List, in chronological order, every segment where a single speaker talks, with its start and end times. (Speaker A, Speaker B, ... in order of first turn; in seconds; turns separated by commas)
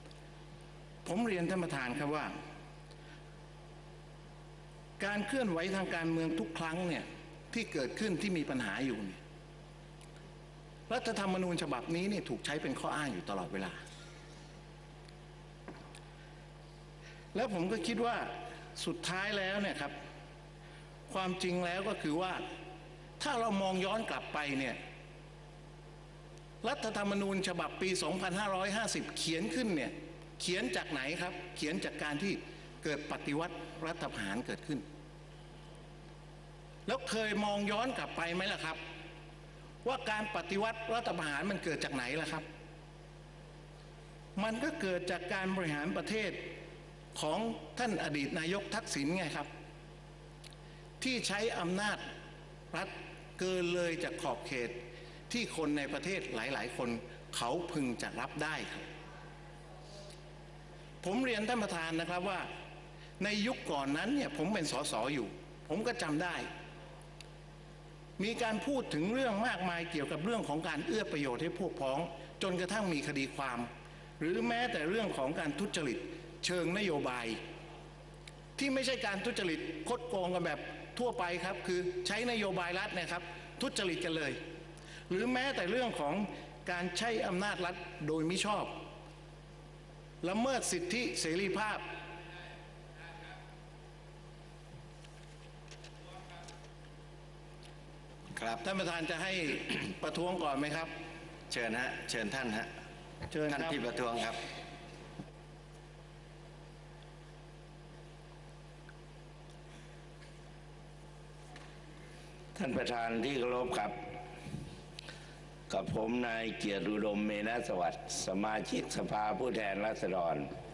Speaker A: 1.1-2.3, Speaker A: 5.0-9.2, Speaker A: 10.9-13.8, Speaker A: 17.3-19.9, Speaker A: 21.1-22.4, Speaker A: 23.2-24.8, Speaker A: 26.6-34.8, Speaker A: 36.9-38.8, Speaker A: 39.8-42.5, Speaker A: 44.4-46.5, Speaker A: 47.1-49.5, Speaker A: 51.0-52.0, Speaker A: 52.7-54.8, Speaker A: 55.3-58.8, Speaker A: 61.0-62.5, Speaker A: 63.2-66.5, Speaker A: 68.2-77.4, Speaker A: 78.6-84.4, Speaker A: 85.1-88.7, Speaker A: 90.2-91.8, Speaker B: 98.3-98.6, Speaker A: 98.6-100.9, Speaker B: 101.5-102.7, Speaker A: 103.3-103.8, Speaker B: 103.5-104.4, Speaker C: 112.5-113.9, Speaker C: 115.7-120.5